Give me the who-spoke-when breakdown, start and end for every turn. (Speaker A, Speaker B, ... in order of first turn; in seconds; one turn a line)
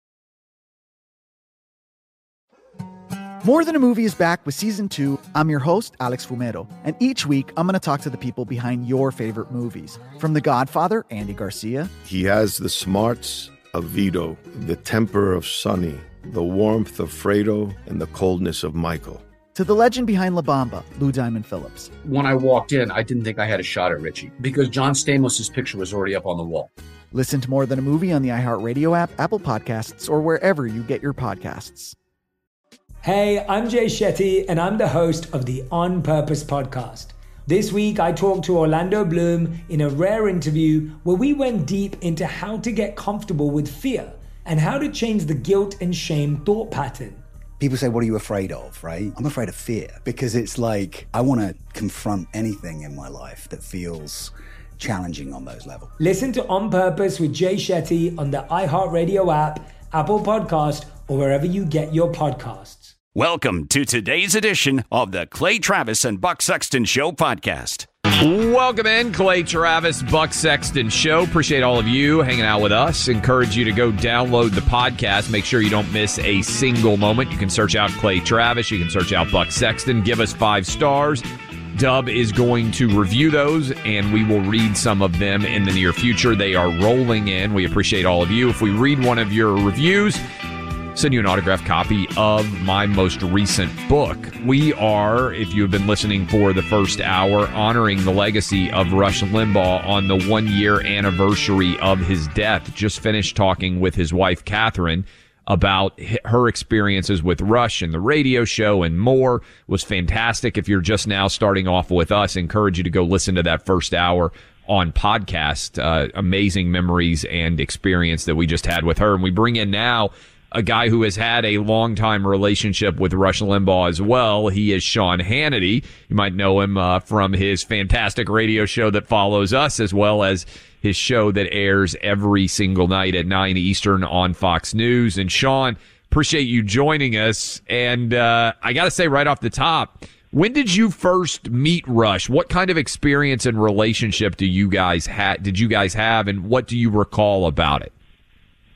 Speaker A: 3.4-11.9
Speaker B: 12.1-19.2
Speaker A: 19.6-21.9
Speaker C: 22.0-26.7
Speaker A: 27.1-31.9
Speaker D: 33.0-47.2
Speaker E: 47.6-55.9
Speaker D: 56.0-62.9
Speaker F: 63.1-67.9
Speaker G: 68.2-90.2
Speaker G: 91.0-147.9